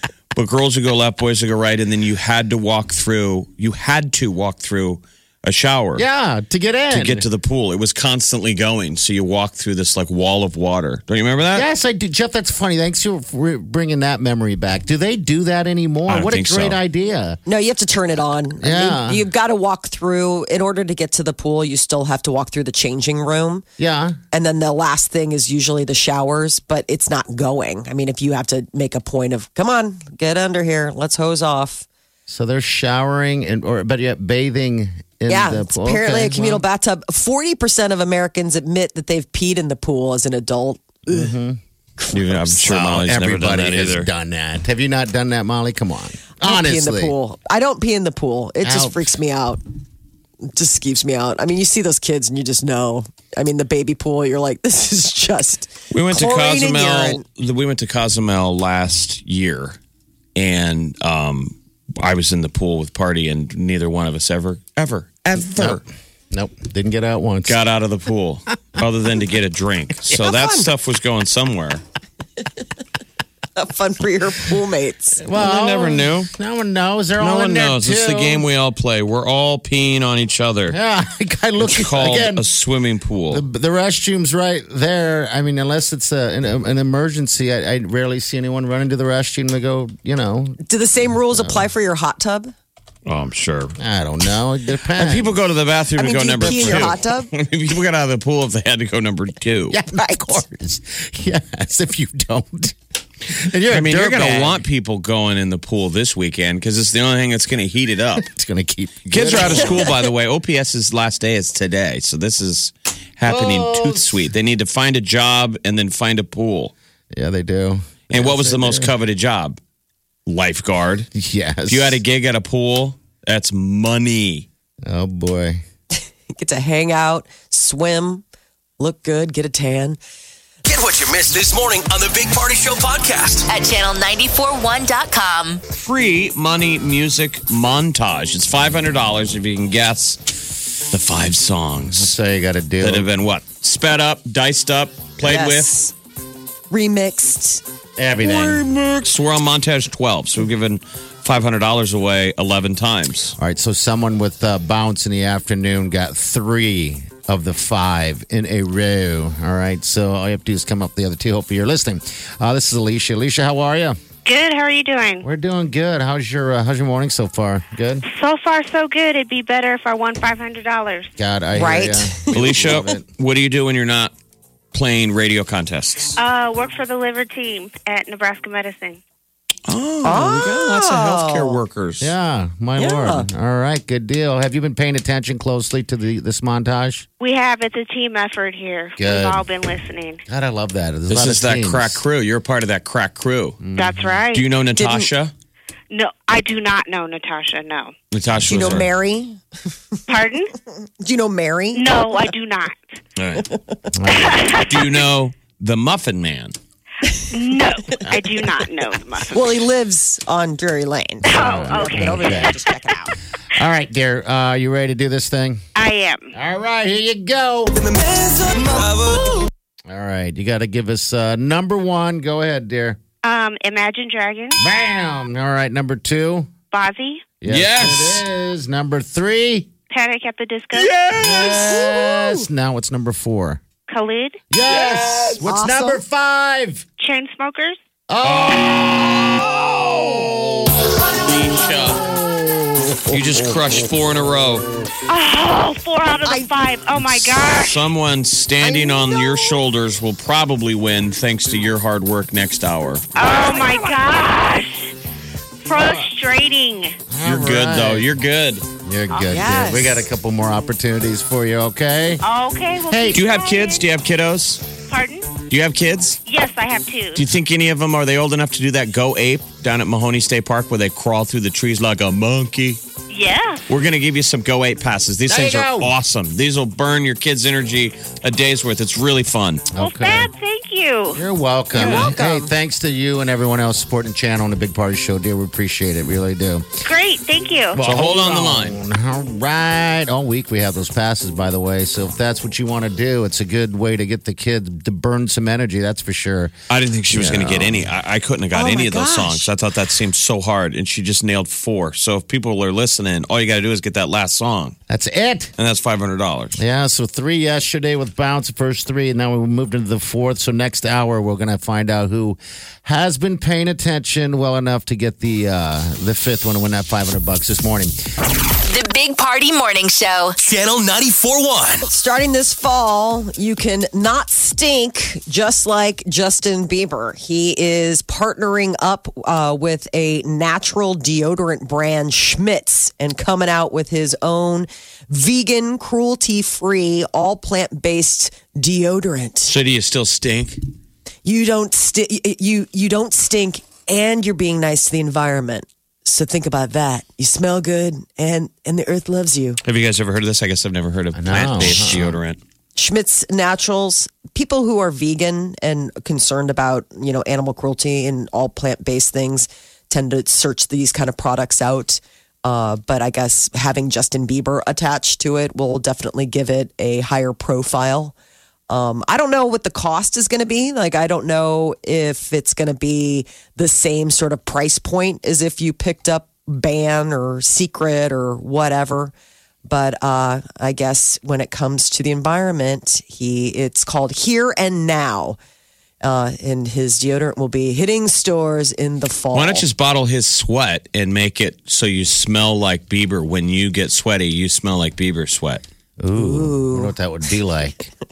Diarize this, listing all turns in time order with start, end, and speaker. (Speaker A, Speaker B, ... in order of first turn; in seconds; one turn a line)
Speaker A: 0.3-6.0
Speaker B: 6.0-7.3
Speaker A: 6.9-11.7
Speaker B: 11.5-17.4
Speaker A: 16.1-16.8
Speaker C: 17.5-23.6
Speaker B: 18.6-19.3
Speaker B: 23.8-24.2
Speaker C: 24.3-31.9
Speaker B: 32.3-36.6
Speaker C: 35.3-41.3
Speaker B: 41.1-41.6
Speaker C: 42.0-42.6
Speaker A: 42.1-44.1
Speaker B: 42.6-47.1
Speaker C: 46.4-49.6
Speaker B: 48.6-49.2
Speaker C: 50.5-57.2
Speaker A: 55.9-59.8
Speaker A: 60.4-65.8
Speaker B: 66.3-67.6
Speaker A: 67.5-71.8
Speaker C: 70.1-70.7
Speaker C: 73.6-75.2
Speaker B: 75.2-78.5
Speaker A: 75.4-76.3
Speaker A: 77.2-80.8
Speaker B: 80.7-82.5
Speaker A: 81.6-83.4
Speaker B: 83.3-90.6
Speaker C: 90.7-92.5
Speaker B: 91.1-91.7
Speaker A: 93.1-93.8
Speaker B: 93.8-95.4
Speaker A: 94.9-99.8
Speaker C: 96.0-97.3
Speaker B: 96.4-97.0
Speaker B: 99.7-104.6
Speaker C: 99.9-100.4
Speaker A: 103.7-108.3
Speaker B: 108.2-110.1
Speaker A: 109.1-116.7
Speaker B: 113.3-114.2
Speaker B: 117.1-118.9
Speaker A: 118.1-119.6
Speaker A: 120.3-121.1
Speaker B: 121.1-122.0
Speaker A: 121.7-124.5
Speaker B: 124.8-125.6
Speaker C: 126.3-128.2
Speaker C: 128.8-130.0
Speaker D: 130.7-133.5
Speaker E: 133.5-135.6
Speaker A: 135.8-140.3
Speaker A: 140.9-142.2
Speaker B: 141.9-143.1
Speaker A: 142.8-145.8
Speaker C: 145.2-145.9
Speaker C: 146.7-147.6
Speaker B: 148.0-148.7
Speaker A: 148.2-153.4
Speaker B: 153.4-164.0
Speaker F: 164.3-165.2
Speaker B: 165.2-168.1
Speaker F: 168.1-171.1
Speaker B: 171.2-173.1
Speaker C: 171.5-172.4
Speaker A: 172.3-174.1
Speaker A: 174.7-176.2
Speaker F: 176.2-179.0
Speaker A: 179.7-182.1
Speaker C: 180.0-181.6
Speaker B: 182.0-187.1
Speaker C: 182.8-183.3
Speaker F: 187.2-190.2
Speaker B: 189.0-189.5
Speaker B: 190.3-192.0
Speaker A: 191.1-193.6
Speaker B: 193.6-194.2
Speaker F: 193.8-194.4
Speaker A: 194.3-195.3
Speaker C: 194.8-195.1
Speaker F: 195.9-197.9
Speaker A: 198.1-198.9
Speaker C: 198.4-199.4
Speaker F: 200.1-200.5
Speaker C: 201.0-202.1
Speaker F: 201.7-202.8
Speaker A: 203.2-203.5
Speaker B: 203.9-204.6
Speaker F: 204.1-205.1
Speaker A: 204.7-206.6
Speaker F: 207.3-209.6
Speaker C: 209.3-213.2
Speaker F: 211.2-212.6
Speaker B: 211.3-212.6
Speaker B: 213.5-215.6
Speaker F: 215.8-216.3
Speaker B: 216.3-217.8
Speaker D: 217.8-219.5
Speaker B: 219.9-223.0
Speaker F: 223.2-224.6
Speaker B: 224.6-226.5
Speaker F: 226.7-227.2
Speaker B: 227.4-229.7
Speaker A: 227.5-228.2
Speaker F: 229.9-230.9
Speaker A: 230.7-232.0
Speaker B: 231.2-233.6
Speaker F: 233.9-234.4
Speaker B: 234.5-236.8
Speaker A: 234.7-235.4
Speaker C: 235.4-236.0
Speaker F: 237.0-237.8
Speaker B: 238.1-241.1
Speaker A: 238.2-240.3
Speaker A: 240.8-242.1
Speaker B: 241.9-243.6
Speaker A: 243.1-244.7
Speaker F: 245.1-247.8
Speaker A: 247.1-253.1
Speaker C: 248.6-249.2
Speaker F: 253.2-254.9
Speaker C: 253.2-254.0
Speaker F: 255.7-257.0
Speaker B: 255.8-256.1
Speaker B: 257.1-258.1
Speaker A: 257.2-258.7
Speaker B: 258.8-262.2
Speaker C: 259.2-260.1
Speaker F: 262.2-263.8
Speaker B: 262.9-263.2
Speaker A: 263.1-264.6
Speaker F: 264.9-265.3
Speaker A: 265.5-266.2
Speaker F: 266.3-267.3
Speaker A: 267.1-272.8
Speaker F: 273.1-273.6
Speaker A: 273.7-279.7
Speaker B: 275.3-275.9
Speaker B: 279.7-280.3
Speaker F: 279.8-281.2
Speaker B: 281.1-286.8
Speaker C: 281.8-282.5
Speaker A: 281.8-282.1
Speaker F: 286.8-287.8
Speaker B: 287.7-296.5
Speaker A: 287.8-288.8
Speaker A: 296.7-304.8
Speaker B: 297.1-297.9
Speaker C: 298.5-299.5
Speaker B: 304.9-305.5
Speaker A: 305.6-306.6
Speaker B: 306.6-317.9
Speaker E: 318.5-320.4
Speaker D: 320.4-321.9
Speaker C: 321.8-339.5
Speaker A: 339.5-340.6
Speaker C: 341.2-349.6
Speaker A: 349.6-352.4
Speaker B: 351.1-352.2
Speaker C: 352.8-368.1
Speaker C: 368.7-379.1
Speaker C: 379.6-385.4
Speaker C: 386.0-389.7
Speaker A: 389.3-395.6
Speaker B: 396.0-397.9
Speaker C: 396.1-396.9